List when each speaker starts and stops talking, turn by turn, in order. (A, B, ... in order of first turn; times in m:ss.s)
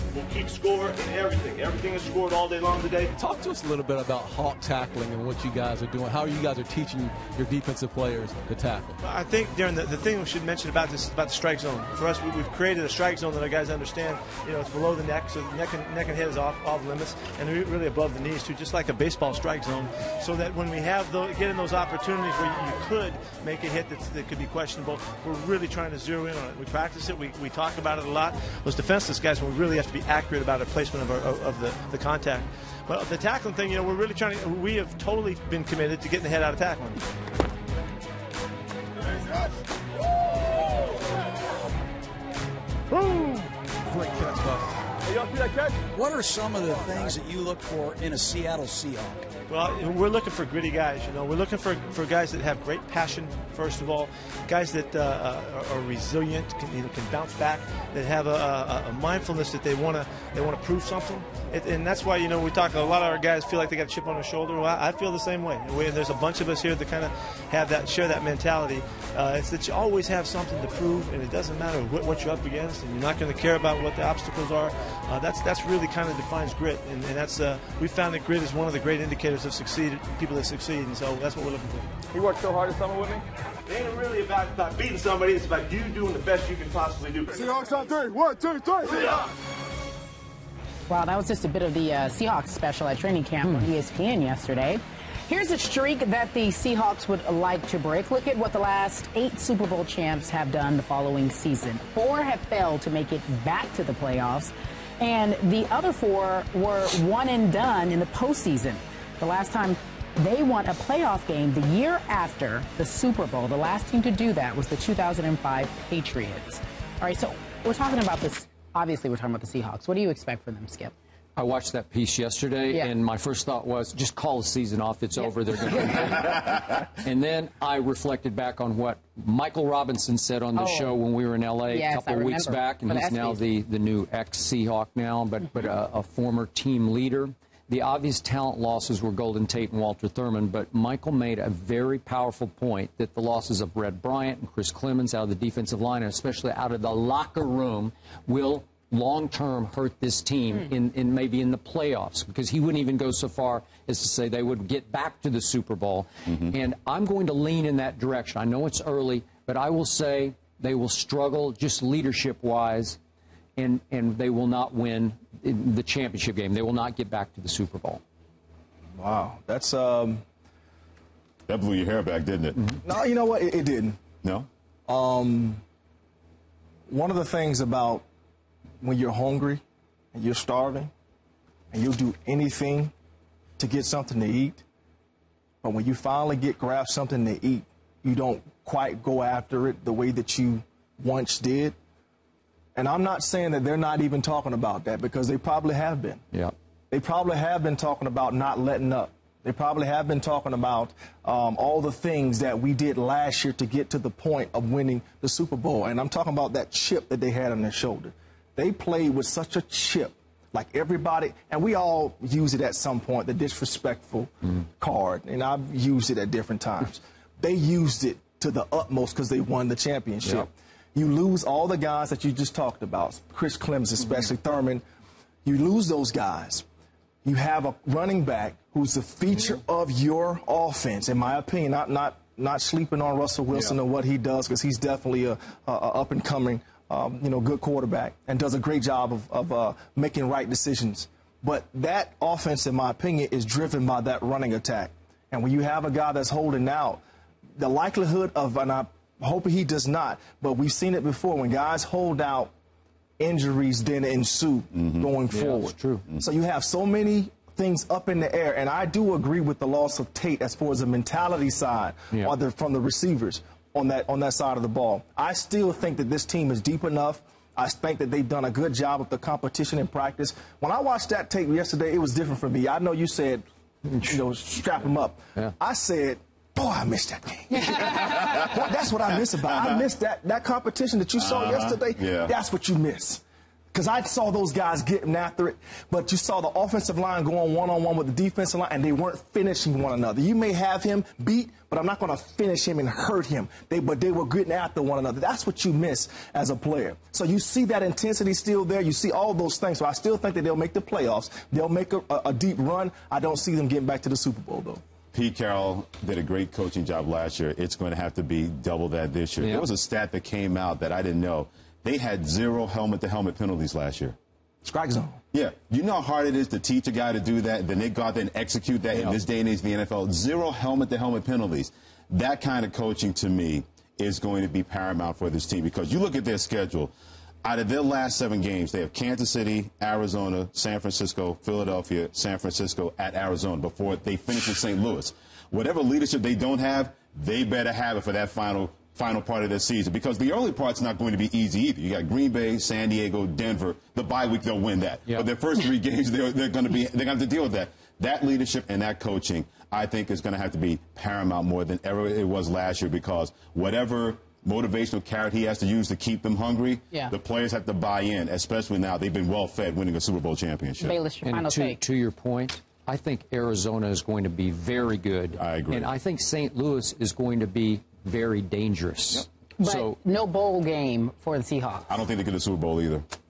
0:00.1-0:03.1 A
0:03.1-0:09.0 B
0:09.0-0:37.0 A
0:43.9-0:44.7 B
0:45.9-0:46.5 C
0:47.1-0:49.2 C
0:49.5-1:21.9 A
1:22.1-1:23.2 D
1:23.6-1:27.8 A
1:27.8-1:28.8 D
1:28.6-1:29.2 A
1:30.9-2:00.9 E
2:01.4-2:43.0 F
2:10.5-2:11.0 E
2:11.7-2:13.4 E
2:43.6-2:48.0 F
2:49.0-2:50.2 G
2:51.5-2:52.6 H
2:52.8-2:54.0 G
2:54.2-2:54.5 H
2:54.9-2:55.6 G
2:56.9-2:58.0 G
2:58.8-2:59.6 G
3:00.1-3:00.9 G
3:01.7-3:02.9 G
3:03.6-3:04.6 G
3:05.6-3:11.8 G
3:12.7-3:16.2 G
3:16.9-3:44.8 G
3:45.4-3:46.6 G
3:47.2-4:07.0 G
4:07.6-4:12.5 G
4:13.2-4:33.4 G
4:15.3-4:16.0 F
4:34.0-4:43.2 G
4:38.0-4:38.4 H
4:41.2-4:42.3 H
4:43.7-5:04.8 G
5:05.1-5:14.2 H
5:09.4-5:09.7 F
5:14.6-5:15.2 G
5:15.3-5:26.9 H
5:18.9-5:19.2 F
5:27.4-6:01.0 H
6:00.8-6:01.8 E
6:01.2-6:10.0 F
6:05.4-6:05.9 H
6:09.6-6:12.0 E
6:11.9-6:13.0 H